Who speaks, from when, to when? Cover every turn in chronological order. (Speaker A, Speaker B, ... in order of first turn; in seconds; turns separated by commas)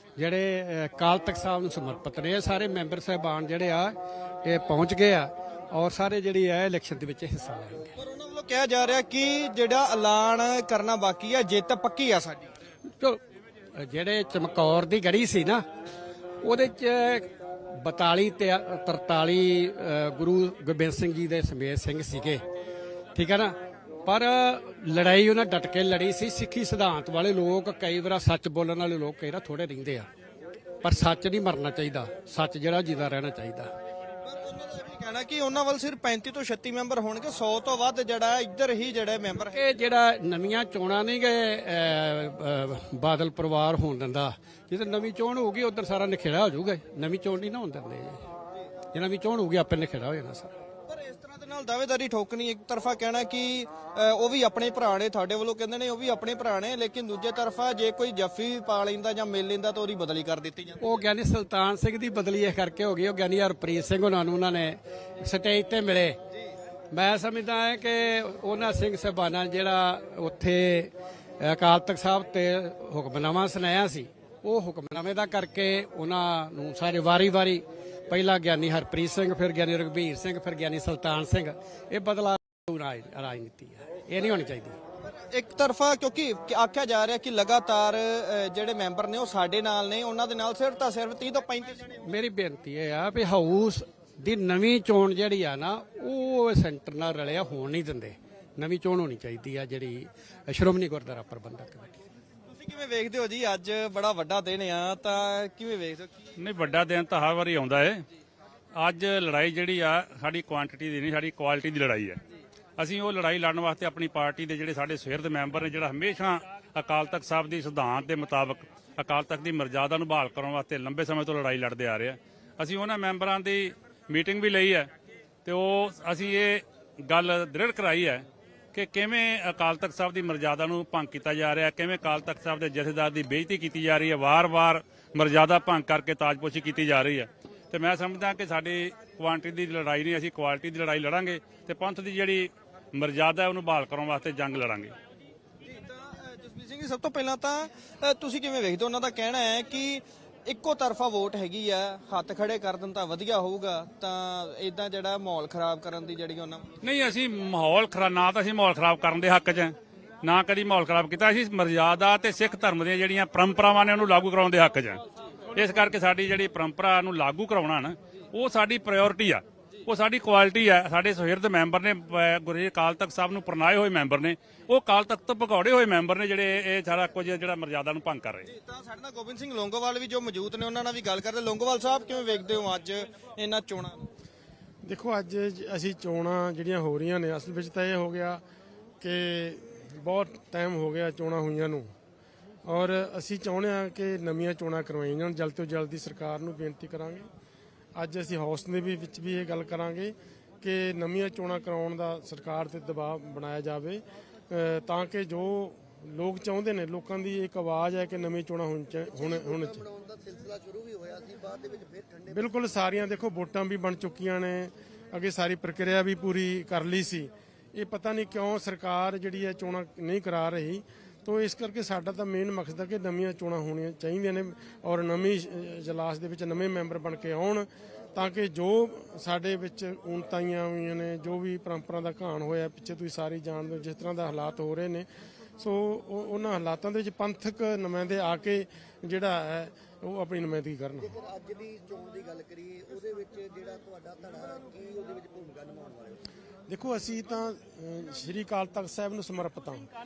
Speaker A: 0.2-7.9, Speaker B: 8.0-12.5, Speaker A: 13.8-15.7, Speaker A: 16.4-22.4, Speaker A: 23.1-30.1, Speaker A: 30.8-33.7, Speaker B: 34.2-39.6, Speaker A: 39.5-48.2, Speaker A: 48.9-50.5, Speaker B: 50.9-61.0, Speaker A: 60.8-66.2, Speaker A: 66.9-84.8, Speaker B: 85.0-92.0, Speaker A: 92.0-102.0, Speaker B: 102.5-106.3, Speaker C: 106.4-108.0, Speaker C: 108.7-112.2, Speaker C: 112.8-124.9, Speaker C: 125.4-144.9, Speaker B: 145.6-156.7, Speaker C: 156.8-165.0, Speaker C: 165.5-178.5, Speaker B: 178.5-184.1, Speaker D: 184.8-188.4, Speaker D: 189.0-191.9, Speaker D: 192.6-197.3, Speaker D: 197.9-209.8, Speaker E: 210.2-212.1, Speaker D: 212.3-235.1, Speaker D: 235.6-241.2, Speaker E: 241.7-245.9, Speaker D: 246.7-249.8